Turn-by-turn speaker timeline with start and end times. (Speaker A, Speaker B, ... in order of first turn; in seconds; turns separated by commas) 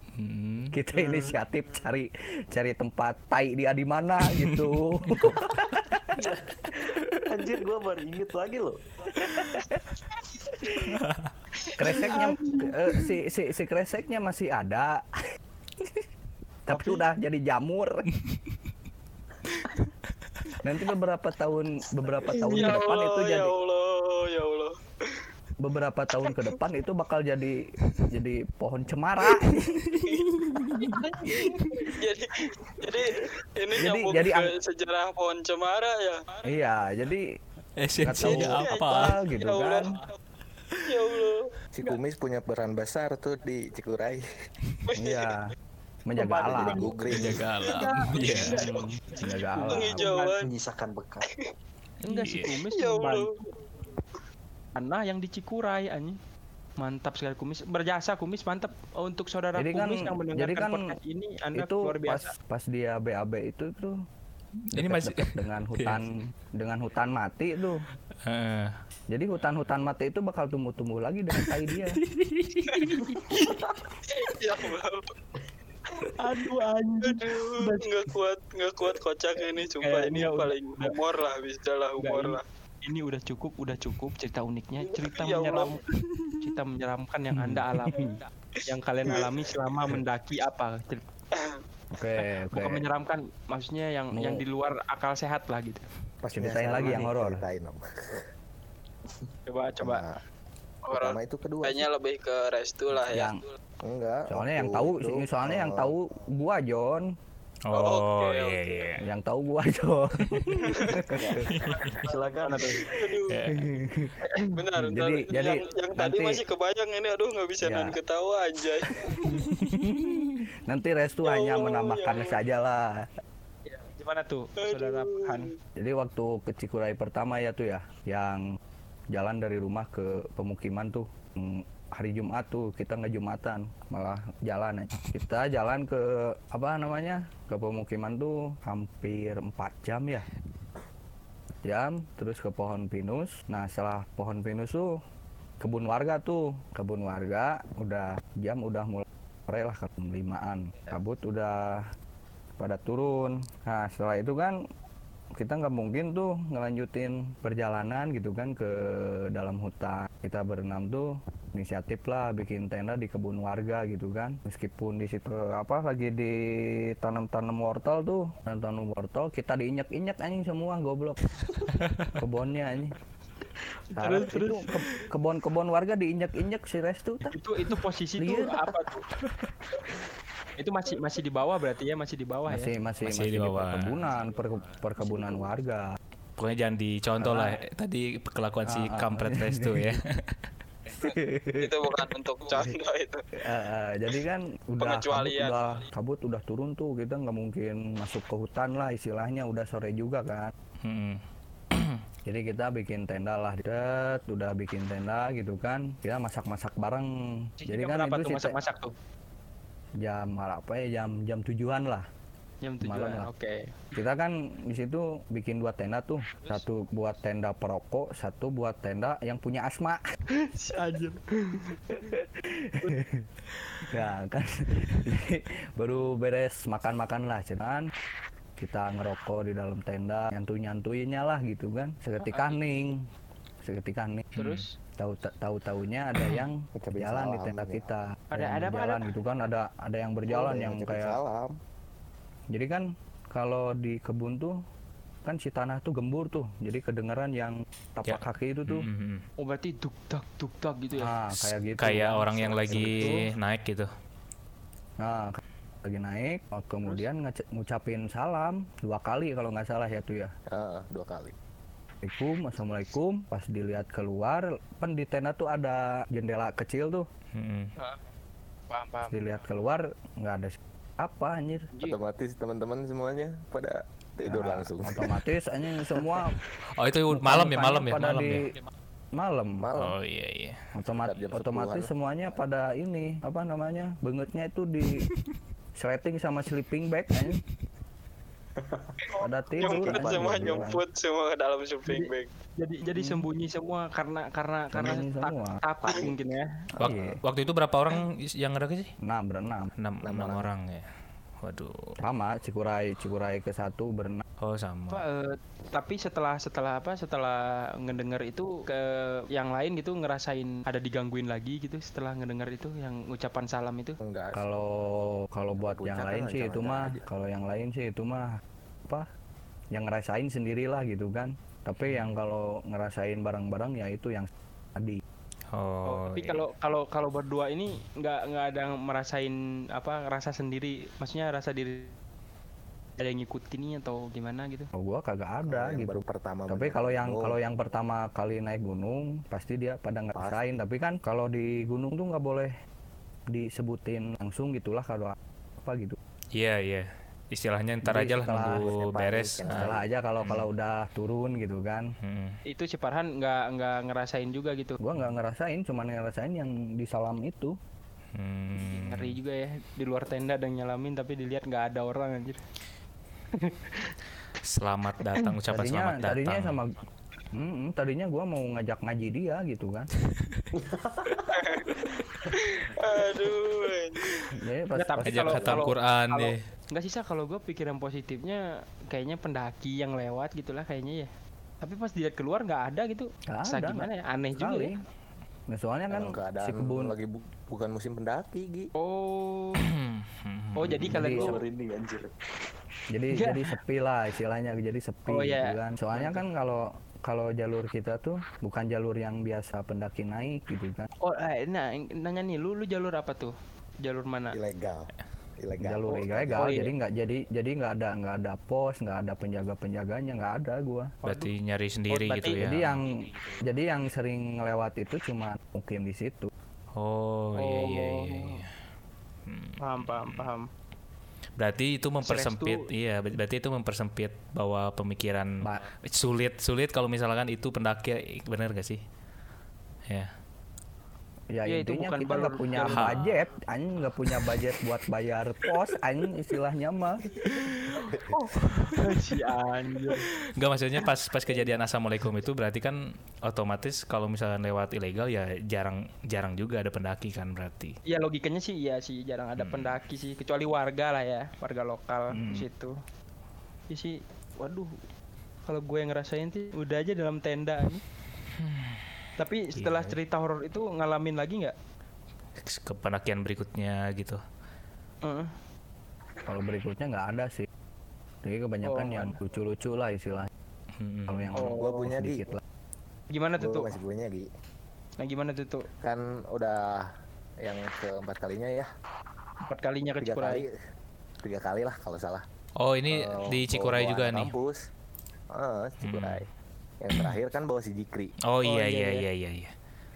Speaker A: 0.2-0.7, Speaker B: 0.7-6.2, Speaker C: 0.9-1.4, Speaker A: 4.3-5.3, Speaker D: 6.2-8.7, Speaker A: 10.8-11.3, Speaker B: 11.8-15.0, Speaker C: 11.9-12.8, Speaker B: 16.6-18.0, Speaker C: 16.7-17.0, Speaker B: 20.6-23.5, Speaker E: 22.3-25.2, Speaker B: 25.6-27.5, Speaker B: 28.1-29.7, Speaker A: 29.4-30.8, Speaker E: 30.8-36.4, Speaker C: 30.8-31.5, Speaker B: 33.7-34.5, Speaker B: 36.5-37.2, Speaker A: 37.8-39.2, Speaker B: 38.0-39.9, Speaker E: 38.2-40.1, Speaker E: 40.9-41.5, Speaker F: 41.7-44.2, Speaker E: 44.9-45.3, Speaker B: 44.9-45.4, Speaker B: 46.1-47.0, Speaker C: 46.2-46.9, Speaker F: 46.5-47.5, Speaker A: 47.1-48.9, Speaker C: 47.6-50.3, Speaker E: 48.2-50.5, Speaker B: 48.6-50.1, Speaker D: 50.4-51.2, Speaker C: 52.0-53.4, Speaker A: 52.1-52.5, Speaker E: 52.7-53.3, Speaker C: 54.8-56.1, Speaker C: 56.8-62.3, Speaker B: 59.5-60.8, Speaker B: 61.5-63.9, Speaker A: 64.7-66.0, Speaker B: 64.8-67.8, Speaker A: 68.2-68.8, Speaker B: 69.1-72.0, Speaker A: 71.4-73.0, Speaker E: 72.7-73.5, Speaker D: 73.3-73.8, Speaker E: 74.1-75.0, Speaker C: 76.0-77.9, Speaker E: 77.0-82.4, Speaker C: 79.8-81.0, Speaker C: 82.0-85.8, Speaker E: 84.8-85.7, Speaker C: 86.4-91.0, Speaker B: 87.3-88.2, Speaker E: 88.6-89.5, Speaker E: 91.3-91.6, Speaker B: 91.9-92.8, Speaker C: 92.5-95.8, Speaker F: 96.2-98.2, Speaker B: 96.3-97.4, Speaker C: 99.5-100.0, Speaker F: 99.8-100.2, Speaker E: 100.8-103.5, Speaker F: 100.9-101.9, Speaker B: 103.0-103.4, Speaker F: 103.8-105.9, Speaker B: 104.3-107.0, Speaker A: 107.7-109.0, Speaker E: 107.7-109.0, Speaker B: 109.0-111.5, Speaker E: 110.6-110.9, Speaker D: 111.1-112.8, Speaker A: 111.4-111.9, Speaker C: 112.4-112.7, Speaker E: 112.9-113.5, Speaker A: 113.3-113.6, Speaker B: 113.5-114.1, Speaker E: 114.5-119.2, Speaker B: 114.8-116.4, Speaker B: 117.6-117.9, Speaker B: 119.0-123.0, Speaker A: 119.6-120.3, Speaker E: 121.2-122.4, Speaker C: 123.7-125.5, Speaker E: 124.6-125.5, Speaker B: 125.8-128.4, Speaker B: 129.1-140.2, Speaker B: 141.6-144.9, Speaker B: 145.6-151.8, Speaker B: 152.6-154.5, Speaker B: 155.4-171.2, Speaker A: 171.4-172.2, Speaker B: 172.2-172.9, Speaker B: 173.9-177.3, Speaker C: 174.0-174.7, Speaker C: 177.2-179.0, Speaker B: 178.2-178.7, Speaker A: 179.2-179.5, Speaker C: 180.6-182.7, Speaker B: 182.5-185.8, Speaker A: 183.0-183.9, Speaker A: 186.4-190.1, Speaker B: 187.2-187.6, Speaker B: 188.7-189.9, Speaker B: 190.9-192.0, Speaker E: 191.6-193.2, Speaker B: 193.4-200.5, Speaker E: 194.8-195.8, Speaker A: 200.8-201.2, Speaker A: 201.7-202.0, Speaker B: 202.3-207.1, Speaker C: 207.6-208.9, Speaker B: 207.6-208.6, Speaker B: 210.0-212.1, Speaker C: 212.6-213.7, Speaker B: 212.8-213.3, Speaker B: 213.9-220.0, Speaker C: 220.3-222.2, Speaker B: 222.1-223.2, Speaker B: 223.9-227.8, Speaker B: 228.6-233.0, Speaker C: 232.2-232.6, Speaker B: 233.6-234.2, Speaker A: 234.3-234.6, Speaker C: 234.4-234.7, Speaker B: 235.0-241.1, Speaker A: 236.2-236.5, Speaker F: 236.7-237.9, Speaker C: 238.3-239.1, Speaker F: 240.3-241.5, Speaker B: 242.5-244.5, Speaker B: 245.2-248.8, Speaker A: 248.1-249.2, Speaker C: 249.4-251.1, Speaker B: 251.0-253.2, Speaker A: 251.3-253.9, Speaker F: 252.7-253.3, Speaker B: 255.0-260.3, Speaker F: 260.5-261.3, Speaker B: 262.0-267.0, Speaker A: 267.3-267.7, Speaker C: 267.8-268.0, Speaker C: 268.7-269.2, Speaker B: 269.1-271.7, Speaker C: 271.7-272.0, Speaker F: 271.8-275.1, Speaker B: 274.3-276.3, Speaker A: 276.8-278.4, Speaker B: 277.1-278.4, Speaker B: 279.2-279.6, Speaker F: 279.6-279.9, Speaker A: 279.8-280.6, Speaker B: 280.7-285.0, Speaker F: 280.9-281.9, Speaker B: 285.8-287.4, Speaker E: 289.1-292.3, Speaker B: 289.2-290.8, Speaker D: 289.6-290.7, Speaker C: 291.9-296.5, Speaker B: 292.9-293.2, Speaker B: 294.7-295.6, Speaker B: 296.8-297.2, Speaker A: 296.8-298.9, Speaker B: 299.1-299.7, Speaker A: 299.8-300.9, Speaker F: 300.0-300.5, Speaker A: 301.4-301.9, Speaker B: 302.0-304.2, Speaker A: 304.4-305.0, Speaker C: 304.9-314.0, Speaker F: 314.0-314.5, Speaker B: 314.3-318.3, Speaker F: 315.6-317.0, Speaker B: 319.7-325.0, Speaker A: 321.8-322.1, Speaker A: 325.5-326.4, Speaker C: 325.9-331.9, Speaker C: 333.0-334.7, Speaker B: 334.7-342.5, Speaker F: 335.5-337.4, Speaker B: 343.3-346.0, Speaker A: 346.3-349.7, Speaker B: 347.8-348.6, Speaker F: 348.3-349.9, Speaker B: 349.5-351.8, Speaker A: 352.0-352.4, Speaker C: 352.4-354.8, Speaker B: 354.8-357.5, Speaker A: 358.1-359.1, Speaker C: 358.6-362.4, Speaker C: 363.4-363.9, Speaker A: 364.4-366.6, Speaker B: 365.5-366.8, Speaker B: 367.4-369.9, Speaker D: 370.5-371.6, Speaker E: 371.3-371.7, Speaker E: 372.3-374.1, Speaker B: 374.4-375.6, Speaker C: 374.7-381.1, Speaker A: 375.0-376.4, Speaker C: 381.6-384.7, Speaker B: 383.3-384.8, Speaker B: 385.5-386.9, Speaker F: 385.9-388.7, Speaker C: 388.8-389.6, Speaker A: 389.6-391.0, Speaker C: 390.6-391.4, Speaker B: 390.9-391.4, Speaker D: 391.0-392.1, Speaker B: 392.9-400.9, Speaker C: 393.1-393.4, Speaker C: 395.1-396.2, Speaker C: 401.0-404.4, Speaker F: 404.3-406.7, Speaker B: 405.6-410.9, Speaker C: 405.9-406.7, Speaker C: 411.0-411.3, Speaker A: 411.1-412.8, Speaker C: 411.9-412.4, Speaker B: 412.4-412.9, Speaker B: 413.4-416.3, Speaker A: 416.8-418.4, Speaker C: 417.4-418.4, Speaker A: 419.2-420.3, Speaker C: 419.6-420.5, Speaker A: 421.4-425.3, Speaker C: 422.0-422.6, Speaker A: 425.9-428.8, Speaker B: 431.3-437.0, Speaker C: 431.4-432.9, Speaker A: 432.7-433.1, Speaker A: 437.4-439.0, Speaker C: 437.8-440.1, Speaker A: 439.9-447.8, Speaker C: 447.9-452.7, Speaker A: 449.4-449.8, Speaker A: 452.1-452.4, Speaker C: 453.7-454.7, Speaker C: 455.5-457.8, Speaker A: 458.4-458.8, Speaker C: 459.2-461.5, Speaker A: 459.6-459.9, Speaker A: 462.4-464.2, Speaker C: 465.0-465.3, Speaker B: 466.2-467.5, Speaker B: 468.2-470.3, Speaker C: 468.6-469.2, Speaker A: 470.8-471.5, Speaker B: 471.1-472.4, Speaker C: 471.3-471.8, Speaker F: 471.4-472.4, Speaker C: 473.1-473.7, Speaker F: 473.4-474.3, Speaker C: 475.0-475.6, Speaker F: 475.8-476.8, Speaker F: 477.4-478.7, Speaker C: 479.5-480.4, Speaker F: 480.0-480.5, Speaker F: 481.2-482.2, Speaker A: 482.6-484.3, Speaker F: 482.9-484.6, Speaker F: 485.3-486.2, Speaker A: 485.8-486.2, Speaker F: 486.8-488.1, Speaker A: 488.3-489.5, Speaker C: 488.4-489.0